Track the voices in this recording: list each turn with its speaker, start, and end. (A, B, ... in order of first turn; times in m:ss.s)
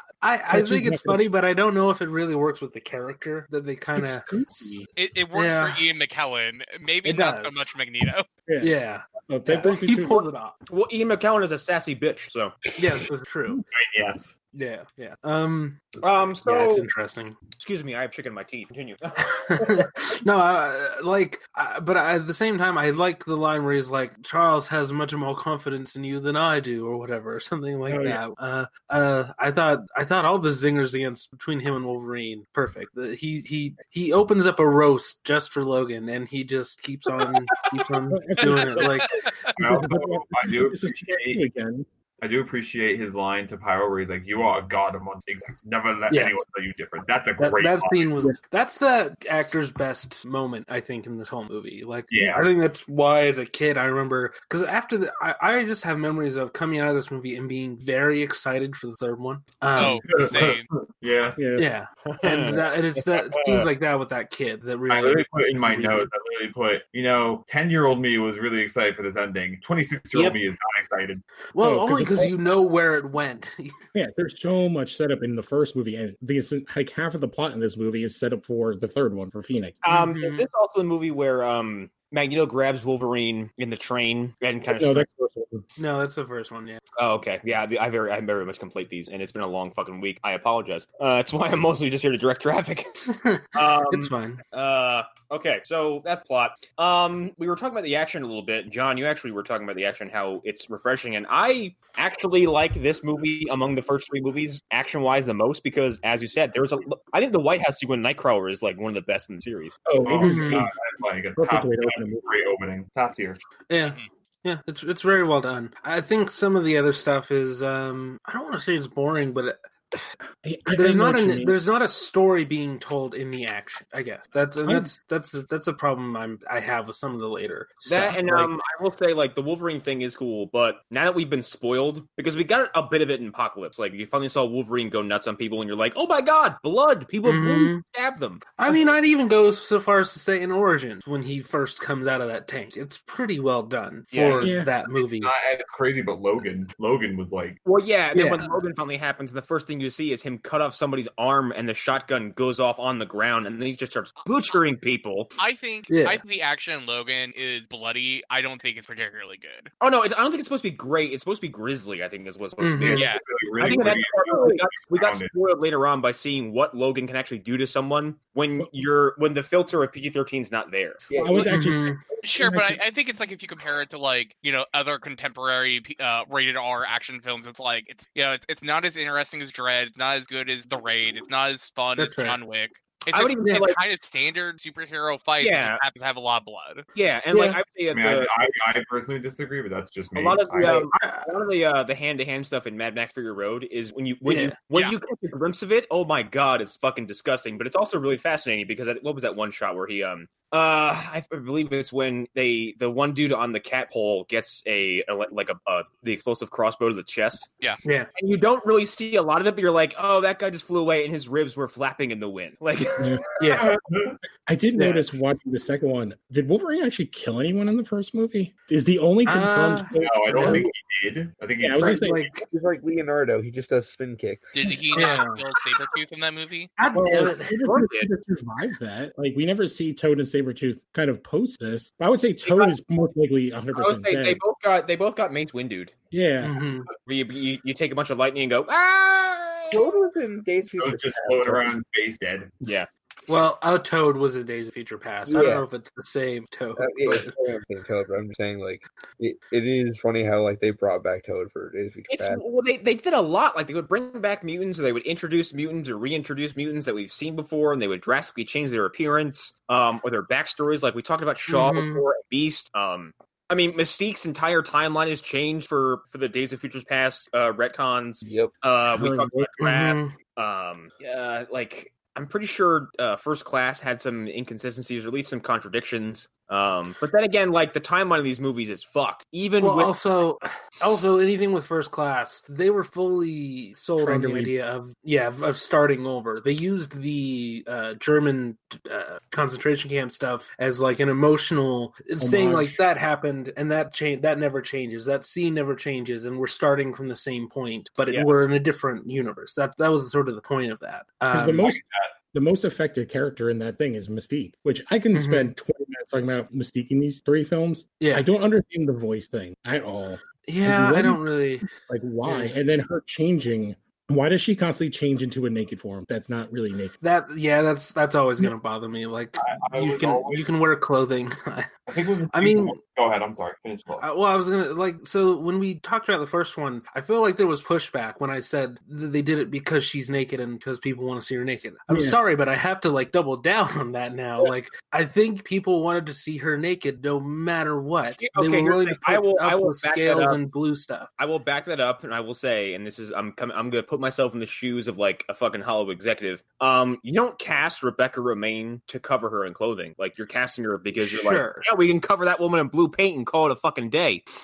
0:00.2-0:04.8 A
0:00.5-0:01.2 B
0:03.9-0:04.9 B
0:04.9-0:08.3 C
0:05.3-0:05.8 A
0:07.0-0:07.7 A
0:08.4-0:08.7 B
0:08.6-0:10.5 A
0:09.3-0:10.3 B
0:10.7-0:12.6 D
0:12.8-0:13.6 A
0:13.7-0:14.4 E
0:14.5-0:17.4 A
0:16.0-0:16.9 D
0:17.6-0:19.8 D
0:19.2-0:39.2 A
0:27.9-0:28.2 B
0:38.1-0:41.8 B
0:39.0-0:39.5 C
0:39.6-0:41.4 E
0:42.2-0:48.2 E
0:46.1-0:46.4 A
0:47.4-1:00.1 A
0:52.1-0:52.5 E
0:59.8-1:00.7 C
1:00.0-1:01.4 E
1:01.4-1:01.7 B
1:01.6-1:06.1 A
1:02.0-1:03.7 D
1:04.9-1:11.2 E
1:11.5-1:13.8 A
1:11.6-1:12.4 B
1:13.9-1:19.8 B
1:19.8-1:25.1 D
1:19.9-1:20.4 A
1:24.7-1:25.6 B
1:25.8-1:26.8 A
1:27.0-1:49.8 D
1:33.1-1:34.4 A
1:49.8-1:50.7 B
1:50.0-1:53.4 E
1:50.2-1:50.6 A
1:51.4-1:52.2 B
1:53.7-2:00.1 A
2:00.4-2:01.6 B
2:00.7-2:08.5 A
2:04.6-2:04.9 B
2:07.9-2:18.5 D
2:17.2-2:17.8 A
2:18.6-2:25.3 A
2:24.1-2:24.5 D
2:24.4-2:24.7 B
2:25.1-2:27.6 E
2:27.6-2:35.3 D
2:28.1-2:28.5 A
2:35.4-2:39.7 C
2:35.9-2:36.2 A
2:39.8-2:51.0 D
2:42.6-2:43.1 A
2:42.8-2:45.3 E
2:42.9-2:43.2 C
2:51.1-2:51.5 F
2:51.2-2:52.8 B
2:51.4-2:52.0 A
2:52.2-3:06.8 C
3:02.0-3:02.4 A
3:03.1-3:03.8 D
3:05.4-3:05.8 D
3:06.9-3:08.3 D
3:07.3-3:07.6 A
3:07.9-3:10.8 E
3:10.1-3:27.5 D
3:10.6-3:11.3 A
3:14.2-3:14.5 A
3:28.1-3:33.3 D
3:33.0-3:33.2 B
3:33.4-3:33.7 A
3:33.5-3:34.2 E
3:34.4-3:40.7 B
3:34.8-3:35.1 A
3:39.2-3:40.6 A
3:40.0-3:42.1 E
3:41.6-3:42.2 B
3:41.8-3:42.4 A
3:42.5-3:44.7 F
3:44.5-3:46.7 C
3:44.9-3:45.4 A
3:46.8-3:47.8 A
3:46.9-3:54.4 B
3:47.6-3:48.1 D
3:52.4-3:52.7 D
3:53.7-3:55.9 D
3:56.1-3:56.5 B
3:56.4-3:56.9 A
3:57.0-3:59.8 D
3:59.7-4:01.7 F
4:00.8-4:02.6 E
4:02.6-4:02.9 D
4:03.3-4:07.3 A
4:05.2-4:05.6 F
4:06.8-4:12.4 F
4:12.1-4:39.9 D
4:21.5-4:22.0 A
4:28.2-4:28.5 F
4:29.0-4:29.5 B
4:29.6-4:30.1 A
4:39.6-5:01.7 A
4:44.0-4:44.5 B
4:52.2-4:52.8 B
5:01.3-5:01.8 B
5:01.6-5:02.2 E
5:02.3-5:16.9 B
5:05.1-5:05.5 A
5:08.0-5:08.3 A
5:10.5-5:11.7 A
5:12.2-5:12.5 A
5:17.0-5:22.8 A
5:19.4-5:20.5 E
5:21.9-5:24.0 E
5:24.0-5:41.1 A
5:31.9-5:32.2 B
5:38.1-5:40.4 D
5:41.2-5:54.2 D
5:51.0-5:51.6 A